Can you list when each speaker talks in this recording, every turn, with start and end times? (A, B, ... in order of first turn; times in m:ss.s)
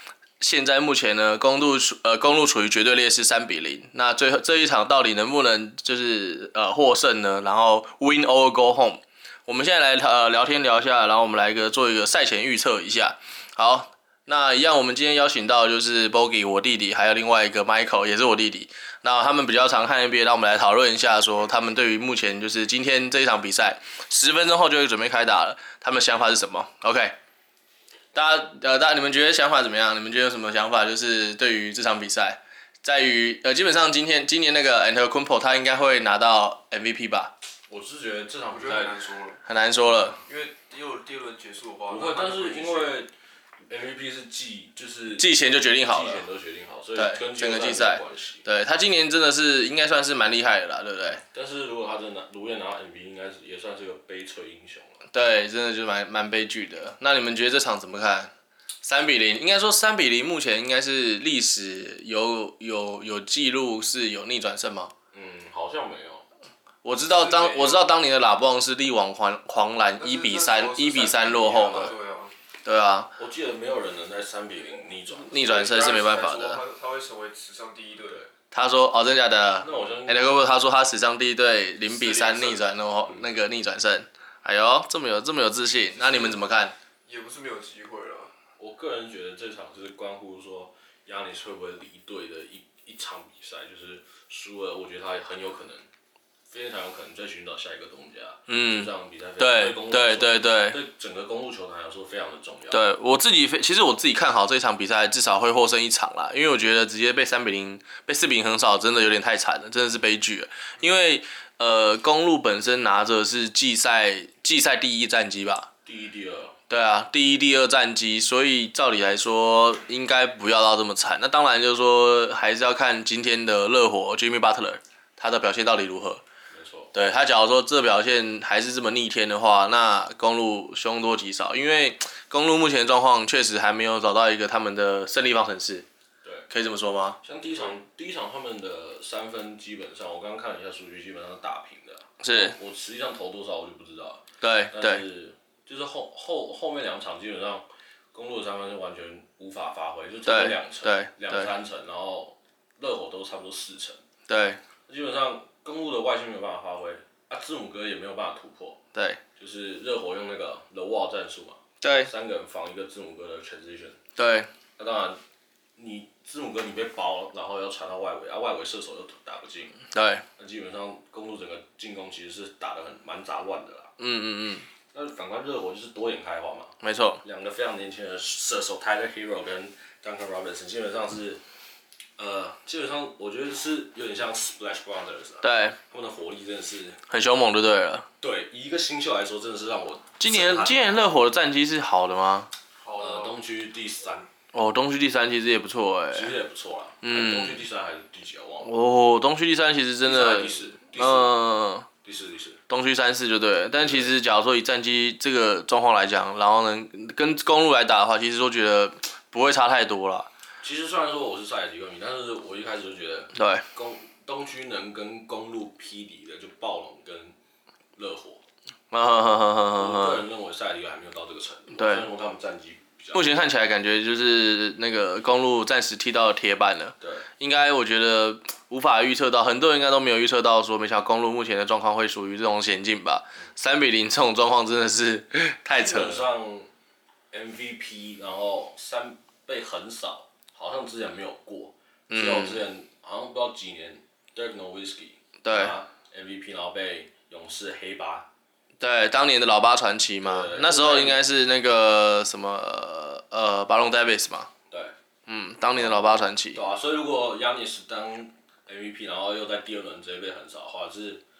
0:00.4-0:27.2 A
0:28.1-0:37.3 A
0:37.7-0:39.1 B
0:38.4-0:39.4 C
0:39.4-0:40.2 A
0:39.9-0:40.1 B
0:40.2-0:42.9 C
0:41.9-0:43.1 B
0:43.7-0:48.4 B
0:45.2-0:46.3 A
0:46.9-0:51.2 A
0:51.2-0:55.0 B
0:55.1-0:58.3 A
0:58.8-1:04.9 A
1:05.1-1:06.2 B
1:06.8-1:11.9 A
1:07.0-1:07.9 C
1:10.0-1:12.3 C
1:12.6-1:13.1 A
1:13.2-1:15.6 B
1:15.1-1:16.6 A
1:15.4-1:18.2 C
1:18.5-1:26.8 A
1:19.6-1:20.3 B
1:21.8-1:22.7 C
1:26.0-1:26.4 C
1:27.0-1:28.3 C
1:28.6-1:35.9 B
1:36.5-1:42.8 B
1:38.5-1:40.8 A
1:42.7-1:55.7 A
1:55.8-1:56.6 B
1:56.7-2:06.2 A
2:06.5-2:06.9 B
2:06.9-2:15.8 A
2:16.2-2:16.5 B
2:16.5-2:17.2 A
2:17.2-2:34.0 B
2:22.2-2:22.6 A
2:24.4-2:25.0 A
2:30.2-2:31.5 A
2:34.3-2:34.6 A
2:34.9-2:38.8 B
2:38.9-2:39.2 A
2:39.4-2:44.0 B
2:41.8-2:42.1 A
2:44.2-2:44.5 A
2:44.8-2:45.2 B
2:45.8-2:49.8 B
2:49.9-2:50.2 A
2:50.4-2:53.9 B
2:54.0-2:54.7 A
2:54.9-3:01.4 B
2:56.8-2:57.2 A
3:02.2-3:07.0 B
3:05.4-3:05.8 A
3:07.1-3:08.1 A
3:08.2-3:11.1 B
3:10.2-3:12.5 A
3:12.8-3:13.4 C
3:12.9-3:14.3 B
3:14.5-3:16.3 A
3:16.1-3:18.7 B
3:17.0-3:17.6 A
3:18.6-3:21.9 A
3:20.0-3:21.4 B
3:22.0-3:22.6 B
3:22.7-3:30.3 A
3:23.8-3:24.2 B
3:30.6-3:37.4 B
3:33.3-3:33.6 A
3:38.0-3:38.4 B
3:38.9-3:40.2 A
3:39.7-3:43.4 B
3:41.7-3:42.1 A
3:43.1-3:56.3 A
3:47.0-3:47.3 B
3:55.7-3:56.7 B
3:57.3-4:08.3 B
4:02.1-4:02.6 A
4:05.4-4:05.7 A
4:08.8-4:14.5 A
4:10.2-4:11.2 B
4:15.3-4:16.6 A
4:15.7-4:21.2 B